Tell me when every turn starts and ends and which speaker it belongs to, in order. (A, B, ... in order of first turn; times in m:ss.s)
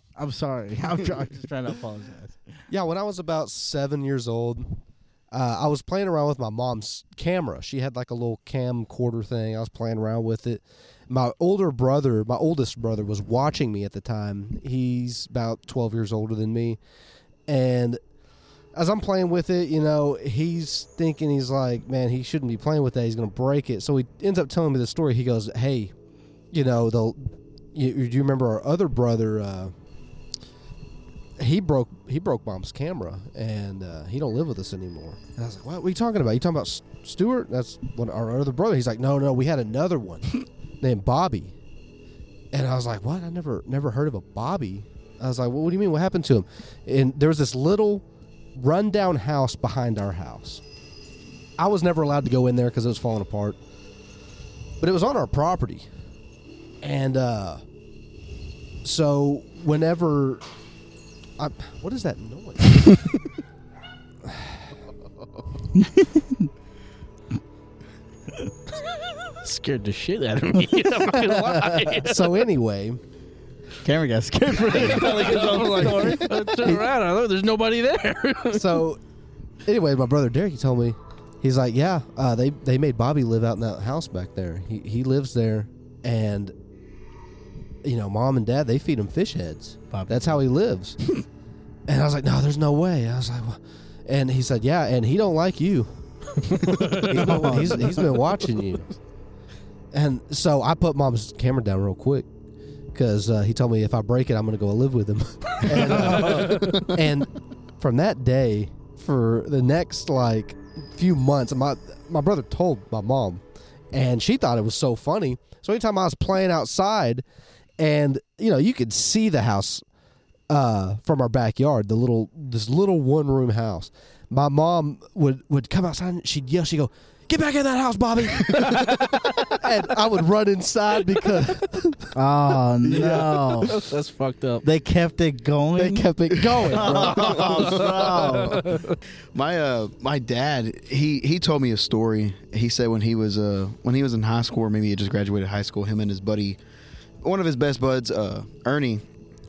0:00.2-0:02.4 A
0:02.7-0:04.8 B
0:05.3-0:16.8 B
0:17.5-0:18.0 B
0:18.7-0:25.9 B
0:26.5-0:29.7 B
0:31.4-0:41.5 B
0:42.5-0:50.6 B
0:51.6-0:53.6 B
0:54.8-0:55.9 B
0:56.8-0:57.6 B
0:58.8-1:00.4 B
1:01.4-1:03.2 B
1:04.2-1:04.5 B
1:05.7-1:06.4 A
1:09.4-1:12.2 C
1:11.3-1:11.7 A
1:11.9-1:13.0 B
1:13.8-1:16.8 A
1:14.7-1:18.8 C
1:18.5-1:19.0 B
1:19.6-1:26.5 B
1:27.8-1:31.2 B
1:29.9-1:30.4 A
1:31.9-1:35.9 B
1:36.4-1:37.6 C
1:36.6-1:38.9 B
1:37.1-1:38.1 A
1:39.9-1:42.3 B
1:42.9-1:57.2 B
1:45.7-1:46.6 A
1:46.0-1:46.9 D
1:57.8-1:59.8 B
2:00.5-2:12.0 B
2:12.1-2:13.7 A
2:13.0-2:14.6 C
2:14.6-2:16.1 A
2:15.8-2:17.6 B
2:16.3-2:18.2 D
2:16.7-2:18.6 A
2:17.3-2:19.0 C
2:19.3-2:26.6 D
2:27.2-2:29.0 D